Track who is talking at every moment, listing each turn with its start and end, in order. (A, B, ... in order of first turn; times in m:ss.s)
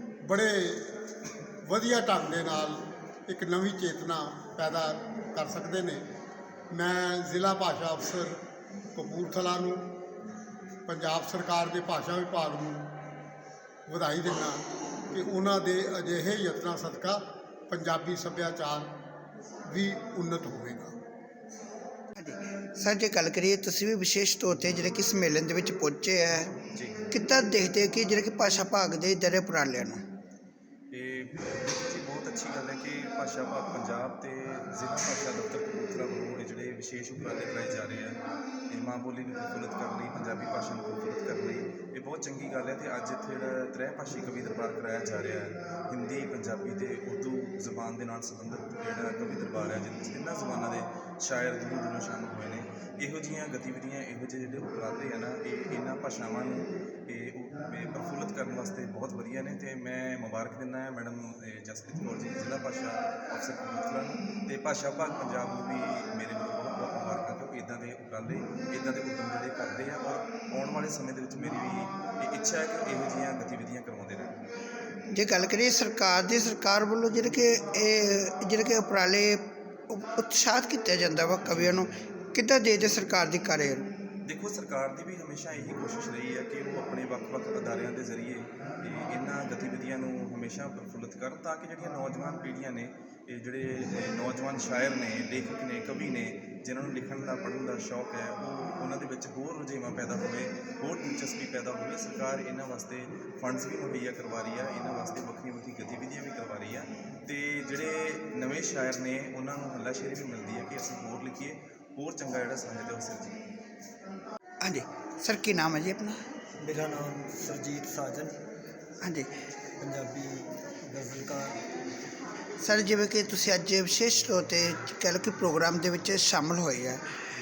0:00.2-0:00.9 A
0:01.6-0:06.0 A
0:06.7-0:08.4 A
0:09.0-0:09.8 A
0:10.9-0:12.8 A
0:13.9-0:18.9 A
0:19.7-0:20.9 A
0:22.2-0:26.5 B
0:26.7-0:27.0 C
0:27.1-0:30.0 B
0:30.9-0:38.2 C
0:38.7-1:14.3 C
1:15.1-1:23.8 B
1:24.2-1:53.4 C
1:54.6-1:56.2 B
1:56.6-1:58.4 D
1:59.0-1:59.3 B
1:59.8-2:01.6 D
2:02.6-2:07.1 B